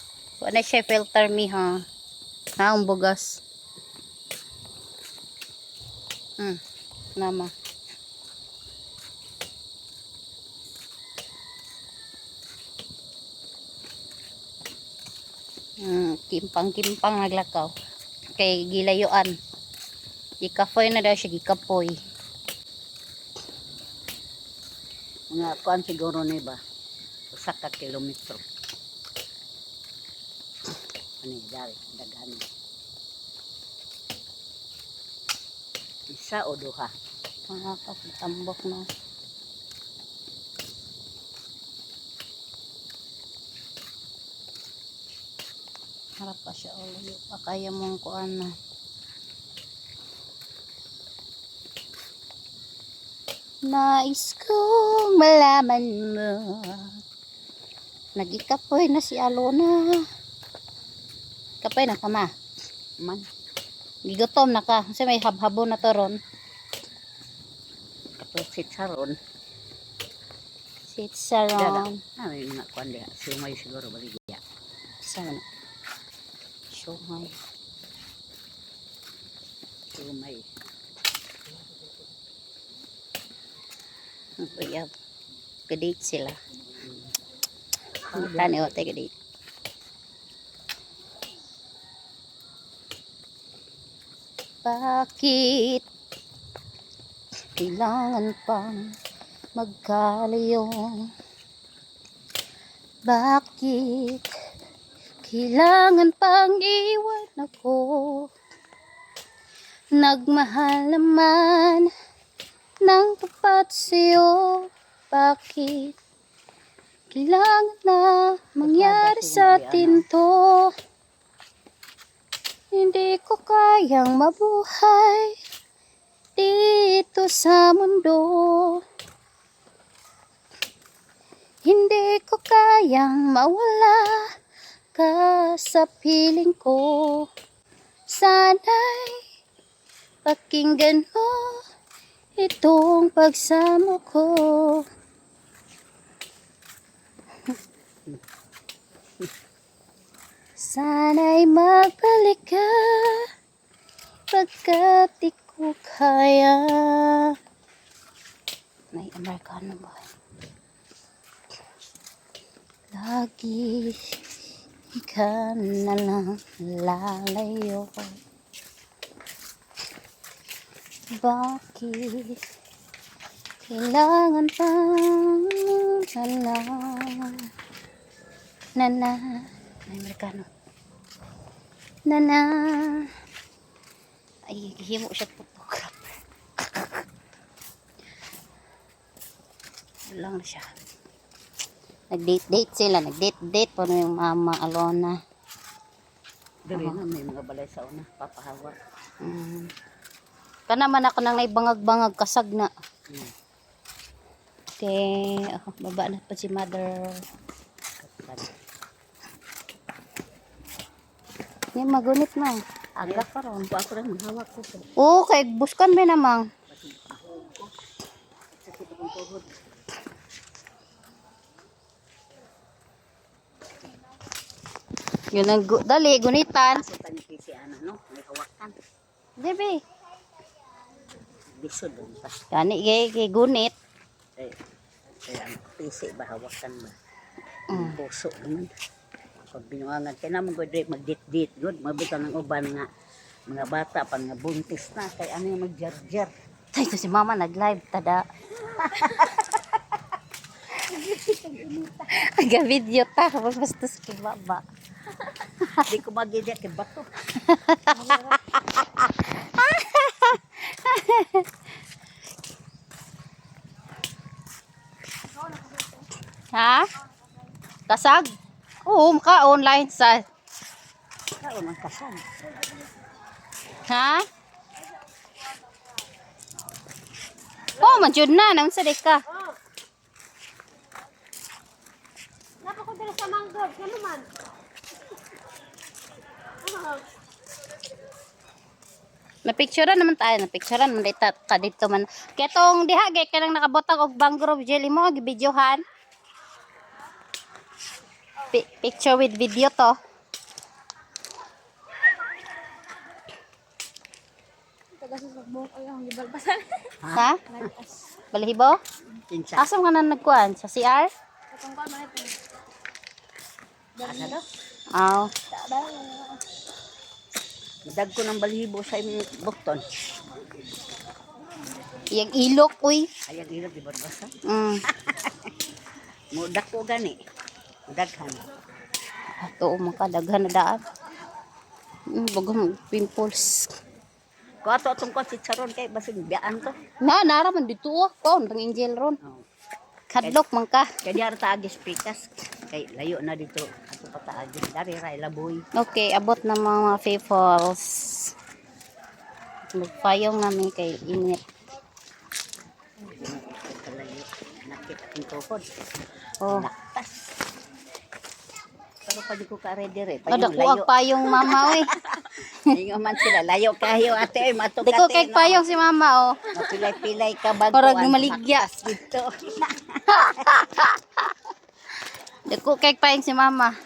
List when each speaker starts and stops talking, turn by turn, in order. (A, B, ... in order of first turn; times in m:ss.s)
0:00.4-0:01.8 A
0:02.6-0:03.4 A
0:07.2-0:07.5 A
0:15.8-0:17.7 A
0:18.3-0:19.3 A
0:20.4-0:22.0 A
0:25.3-0:26.6 B
0:27.3-0:28.4 B
0:31.2-0:32.5 B
0:36.1-0:36.9 B
0:37.5-0:38.8 A
0:46.2-0:48.5 A
0:53.7-0:57.0 A
0:58.2-1:00.0 A
1:01.6-1:02.3 A
1:04.1-1:06.2 A
1:08.2-1:09.2 B
1:10.9-1:12.0 A
1:11.6-1:14.4 B
1:15.0-1:15.4 A
1:16.7-1:17.3 A
1:19.9-1:20.4 B
1:24.4-1:24.9 A
1:25.7-1:26.4 A
1:28.1-1:29.1 A
1:28.1-1:28.8 B
1:34.6-1:35.8 A
1:37.6-1:38.9 A
1:39.6-1:41.1 A
1:43.1-1:44.3 A
1:45.2-1:48.3 A
1:50.0-1:51.9 A
1:52.8-1:56.0 A
1:57.1-2:00.7 A
1:58.6-2:00.0 B
2:02.7-2:05.4 A
2:06.4-2:08.8 A
2:11.6-2:14.3 A
2:15.0-2:17.3 A
2:18.1-2:19.2 A
2:20.2-2:21.6 A
2:22.4-2:24.8 A
2:30.6-2:33.3 A
2:34.3-2:37.3 A
2:38.9-2:40.0 A
2:42.9-2:44.2 A
2:44.9-2:48.2 A
2:51.2-2:52.4 A
2:53.7-2:57.5 A
2:58.8-3:00.5 A
3:02.1-3:03.1 A
3:04.5-3:06.2 A
3:10.1-3:10.7 A
3:12.1-3:15.2 A
3:16.7-3:18.8 B
3:16.7-3:17.0 A
3:19.2-3:19.7 A
3:20.7-3:22.7 A
3:24.8-3:27.2 A
3:28.0-3:28.5 B
3:31.7-3:33.7 A
3:33.0-3:34.9 B
3:35.0-3:36.5 A
3:36.7-3:37.7 B
3:38.5-3:39.6 B
3:45.3-3:46.8 A
3:46.7-3:48.7 B
3:49.4-3:49.8 A
3:51.6-3:52.3 B
3:52.5-3:53.7 A
3:55.3-3:57.0 B
3:57.7-3:58.0 A
3:57.7-3:58.7 B
3:59.5-4:02.9 B
4:03.5-4:06.3 B
4:06.7-4:08.2 A
4:08.8-4:09.2 A
4:08.9-4:09.3 B
4:10.9-4:14.6 A
4:15.3-4:15.9 A
4:15.8-4:17.1 B
4:17.4-4:18.4 A
4:19.0-4:21.5 A
4:26.5-4:26.9 A
4:27.9-4:28.3 A
4:28.8-4:30.2 A
4:31.4-4:32.2 B
4:33.9-4:34.2 A
4:37.8-4:39.2 A
4:42.6-4:44.3 C
4:49.4-4:55.8 A
4:58.5-5:00.0 A
5:05.0-5:06.9 C
5:07.0-5:07.7 B
5:07.1-5:07.6 A
5:08.3-5:08.8 A
5:09.3-5:09.7 B
5:09.6-5:11.1 A
5:11.6-5:12.4 C
5:14.0-5:14.4 B
5:15.0-5:15.3 A
5:15.6-5:16.4 C
5:17.8-5:19.8 B
5:22.1-5:23.1 A
5:23.2-5:24.3 B
5:24.4-5:24.8 A
5:24.8-5:25.5 B
5:26.3-5:27.2 B
5:27.9-5:28.4 B
5:29.4-5:30.8 A
5:32.1-5:33.7 A
5:34.6-5:36.8 B
5:37.0-5:39.2 A
5:40.1-5:40.9 A
5:41.0-5:45.6 B
5:45.8-5:48.3 A
5:49.7-5:51.4 A
5:53.0-5:55.6 B
5:56.5-5:57.2 B
5:59.1-6:05.6 B
6:00.3-6:01.9 A
6:04.8-6:06.5 A
6:06.5-6:10.5 B
6:07.7-6:08.6 A
6:10.1-6:11.0 A
6:12.5-6:13.7 A